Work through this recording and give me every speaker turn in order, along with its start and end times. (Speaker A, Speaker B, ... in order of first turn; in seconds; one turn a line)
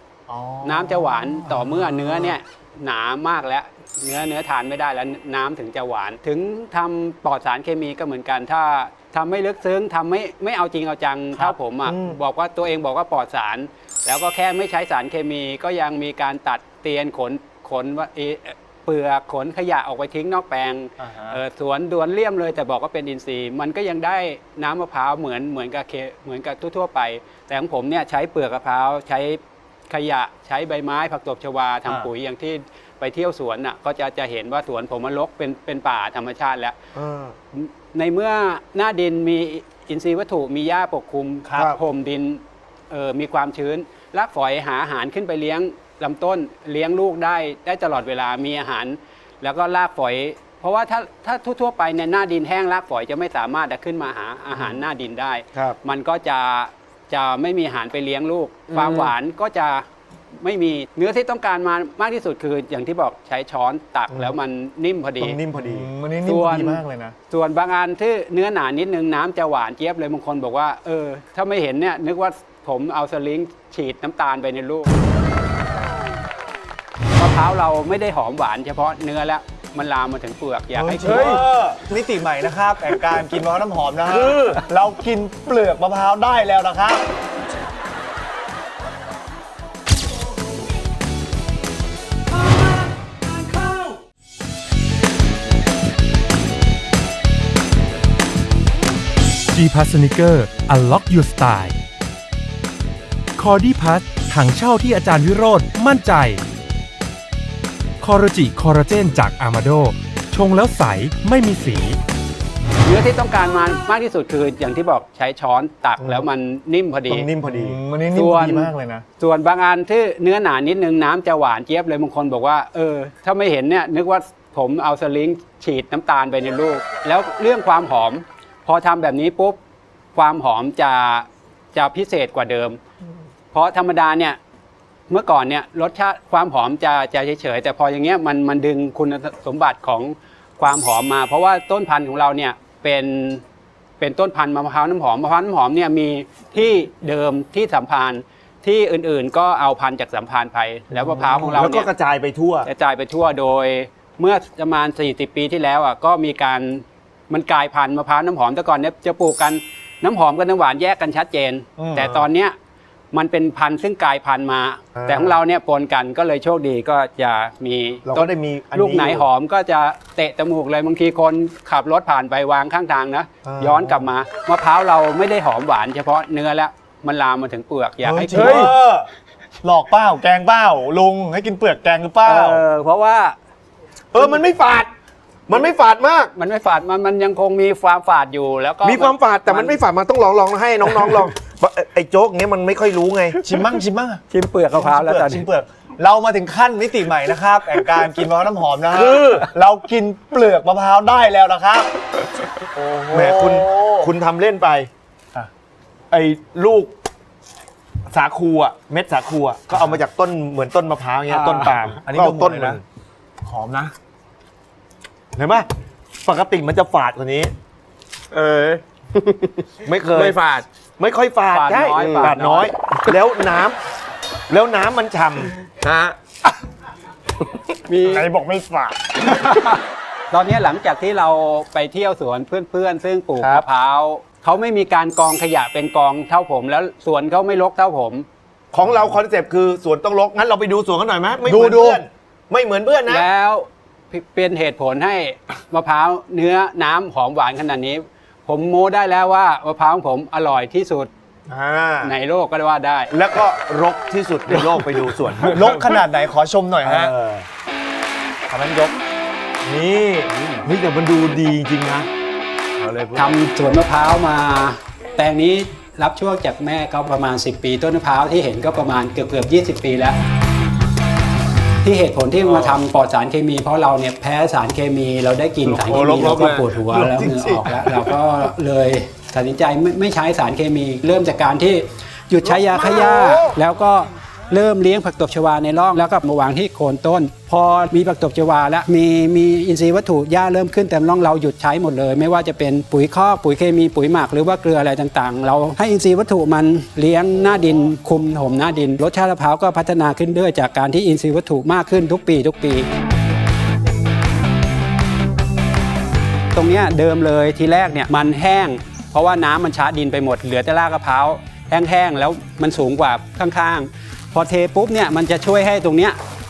Speaker A: 0.3-2.4
Speaker B: 0.6-36.8
Speaker A: 21.0-21.4
Speaker C: 36.9-37.4
Speaker B: 37.5-59.9
Speaker C: 41.5-41.8
Speaker C: 55.5-55.8
Speaker B: 60.4-65.4
Speaker C: 64.1-64.4
Speaker C: 65.2-65.9
Speaker A: 65.6-67.2
Speaker B: 66.2-74.9
Speaker B: 77.2-81.4
Speaker A: 80.7-87.0
Speaker D: 81.0-81.4
Speaker C: 84.1-84.6
Speaker E: 99.5-101.8
Speaker E: 103.4-106.4
Speaker E: 108.0-112.0
Speaker B: 112.8-117.3
Speaker C: 116.0-116.3
Speaker C: 117.1-117.8
Speaker A: 117.4-119.0
Speaker B: 118.1-129.6
Speaker B: 130.2-132.8
Speaker B: 133.5-134.4
Speaker B: 135.1-143.4
Speaker B: 144.0-151.9
Speaker C: 151.0-152.7
Speaker B: 152.7-162.6
Speaker A: 161.8-162.1
Speaker B: 163.1-178.7
Speaker C: 165.0-165.4
Speaker C: 168.1-169.2
Speaker C: 173.4-174.1
Speaker A: 178.0-179.1
Speaker D: 178.3-178.7
Speaker A: 179.6-182.6
Speaker B: 182.2-183.4
Speaker C: 184.1-184.9
Speaker C: 185.5-186.3
Speaker B: 186.4-189.8
Speaker C: 188.8-193.4
Speaker A: 193.4-201.9
Speaker B: 194.3-195.5
Speaker C: 198.9-199.5
Speaker A: 202.8-204.1
Speaker C: 203.1-204.9
Speaker C: 206.1-206.9
Speaker C: 208.1-212.8
Speaker B: 211.3-211.7
Speaker A: 212.1-212.8
Speaker A: 213.4-213.9
Speaker C: 215.3-215.7
Speaker C: 216.2-217.5
Speaker D: 218.3-220.7
Speaker C: 219.8-220.4
Speaker C: 221.0-223.8
Speaker B: 221.5-222.7
Speaker D: 222.0-222.3
Speaker C: 224.5-225.6
Speaker D: 225.8-226.2
Speaker D: 227.5-228.2
Speaker C: 228.1-229.0
Speaker B: 229.2-229.8
Speaker B: 230.3-238.3
Speaker C: 238.7-243.3
Speaker A: 241.4-242.0
Speaker B: 243.1-251.1
Speaker C: 251.5-252.2
Speaker B: 252.0-253.1
Speaker C: 253.1-255.9
Speaker A: 255.4-257.1
Speaker C: 256.8-257.5
Speaker A: 258.5-259.0
Speaker C: 259.6-262.1
Speaker B: 260.3-260.6
Speaker D: 262.8-263.2
Speaker B: 263.1-270.2
Speaker B: 271.8-302.9
Speaker D: 272.4-272.8
Speaker D: 275.8-276.7
Speaker C: 277.0-277.6
Speaker C: 282.4-283.6
Speaker B: 306.5-316.2